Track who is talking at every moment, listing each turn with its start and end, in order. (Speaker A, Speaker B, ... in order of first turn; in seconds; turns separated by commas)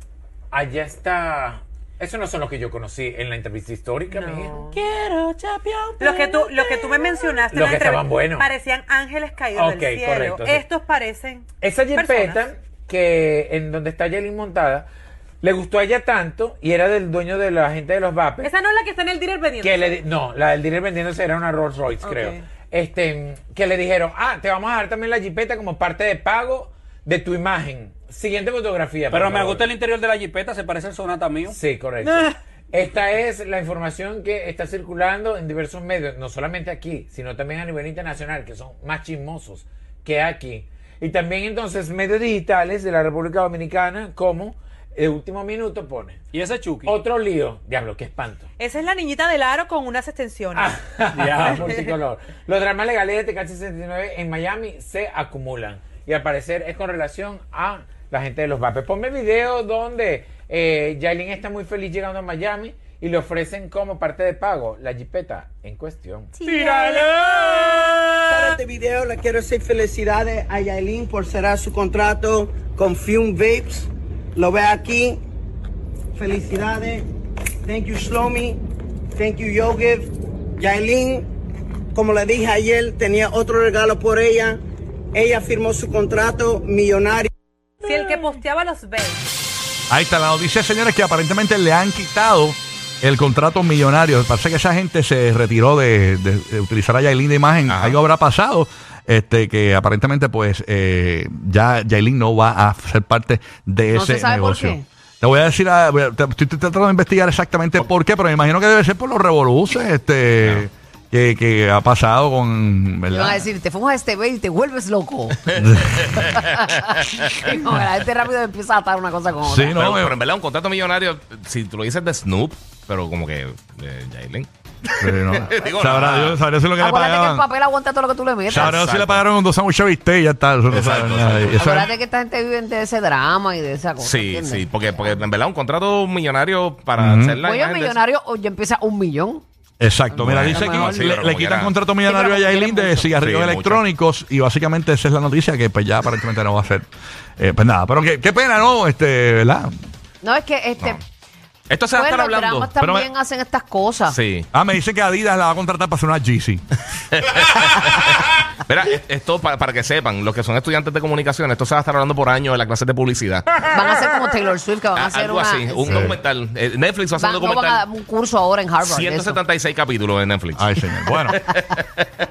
Speaker A: 0.5-4.6, Speaker B: 4.1-4.8, Speaker C: 4.8-6.7, Speaker B: 6.0-12.5, Speaker A: 7.4-8.5, Speaker A: 9.5-10.6, Speaker A: 11.6-14.9, Speaker A: 15.4-18.5, Speaker B: 18.4-20.0, Speaker A: 19.6-29.6, Speaker B: 22.1-22.3, Speaker C: 29.1-31.6, Speaker A: 31.5-46.2, Speaker C: 46.3-46.9, Speaker A: 46.8-48.5, Speaker B: 48.6-50.8, Speaker A: 50.5-66.4, Speaker C: 51.2-51.6, Speaker B: 51.6-51.9, Speaker C: 66.5-67.7, Speaker D: 66.7-67.5, Speaker D: 68.3-75.2, Speaker D: 76.1-77.1, Speaker D: 77.6-78.6, Speaker D: 79.1-81.3, Speaker D: 81.9-84.6, Speaker D: 85.1-87.3, Speaker B: 87.8-89.2, Speaker E: 89.9-113.5, Speaker F: 97.7-98.0, Speaker G: 103.9-104.8, Speaker G: 113.1-115.6, Speaker E: 115.5-116.3, Speaker F: 115.6-117.1, Speaker G: 116.5-116.9, Speaker G: 117.4-119.7, Speaker E: 119.4-120.2, Speaker F: 119.7-124.5, Speaker E: 124.9-127.5, Speaker F: 125.1-126.4, Speaker G: 126.8-128.8, Speaker E: 128.5-131.9, Speaker F: 128.5-129.2, Speaker F: 130.7-131.8, Speaker G: 131.6-135.2, Speaker F: 134.0-138.0, Speaker E: 137.0-137.4, Speaker G: 137.4-139.4, Speaker E: 139.8-146.9, Speaker G: 140.1-141.2, Speaker F: 140.2-141.7, Speaker G: 142.0-143.1, Speaker F: 143.1-143.8, Speaker E: 147.4-149.7, Speaker G: 150.2-151.0, Speaker F: 151.7-152.7, Speaker G: 151.9-154.2, Speaker E: 152.8-153.1, Speaker F: 154.1-154.5, Speaker E: 154.5-156.6, Speaker F: 157.1-163.6, Speaker G: 163.6-166.1, Speaker F: 164.9-167.8, Speaker E: 165.8-166.2, Speaker G: 167.1-169.4, Speaker F: 168.8-172.1, Speaker E: 170.6-171.5